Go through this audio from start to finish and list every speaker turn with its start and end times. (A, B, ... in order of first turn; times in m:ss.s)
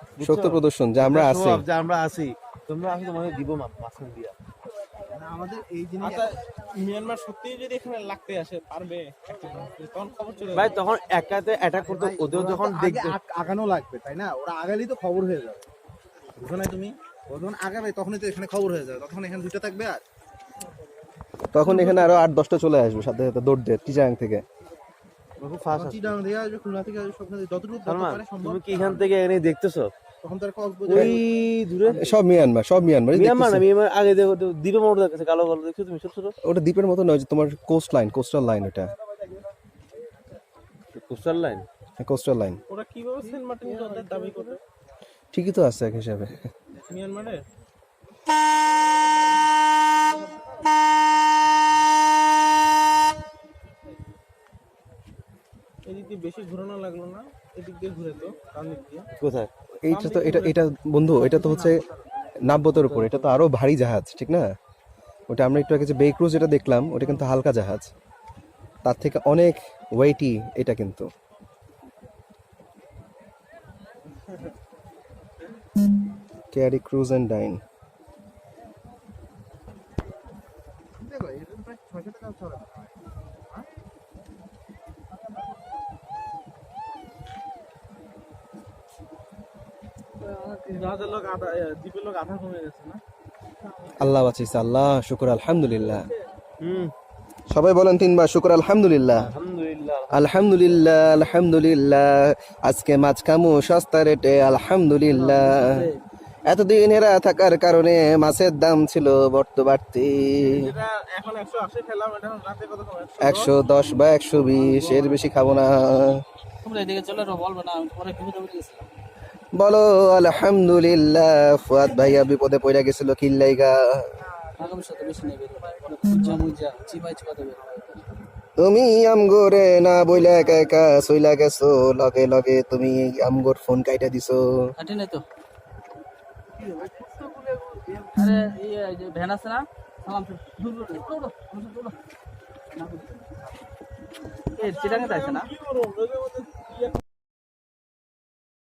0:00.2-0:04.3 A
0:00.2-0:01.6 B
0:05.1-0:06.4 C
0:06.0-0:10.4 D
0:10.5-0:13.2 A
0:11.9-0:15.6 C
0:16.4-0:20.0 C
0:21.5-0:24.4 B
0:25.4-0:26.3 A
0:25.7-0:29.1 C
0:27.8-0:29.9 A
0:30.2-0:31.2 C
0:30.8-0:32.1 A
0:31.9-0:33.6 B
0:33.1-0:36.3 A
0:36.4-0:38.9 B
0:40.9-0:41.6 A
0:42.0-0:42.6 B
0:42.7-0:44.3 D
0:43.6-0:44.6 A
0:45.3-0:46.4 B
0:46.9-0:47.4 D
0:55.8-0:59.1 D
0:59.2-0:59.5 A
0:59.8-1:01.8 B
1:02.4-1:04.5 B
1:02.8-1:03.2 A
1:05.3-1:07.9 B
1:08.8-1:11.1 B
1:16.5-1:17.6 B
1:21.0-1:22.9 C
1:30.3-1:33.0 D
1:34.0-1:36.1 B
1:36.6-1:36.9 A
1:37.5-1:39.3 B
1:39.2-1:40.3 A
1:40.1-1:45.9 B
1:45.1-1:46.0 E
1:46.5-1:50.7 B
1:50.8-1:53.2 D
1:53.2-1:56.2 B
1:56.6-1:58.8 E
1:59.5-2:04.1 B
2:04.6-2:08.1 E
2:08.6-2:14.7 B
2:14.8-2:15.2 E
2:16.7-2:17.2 E
2:18.1-2:22.0 E
2:22.7-2:23.3 E
2:24.6-2:25.5 E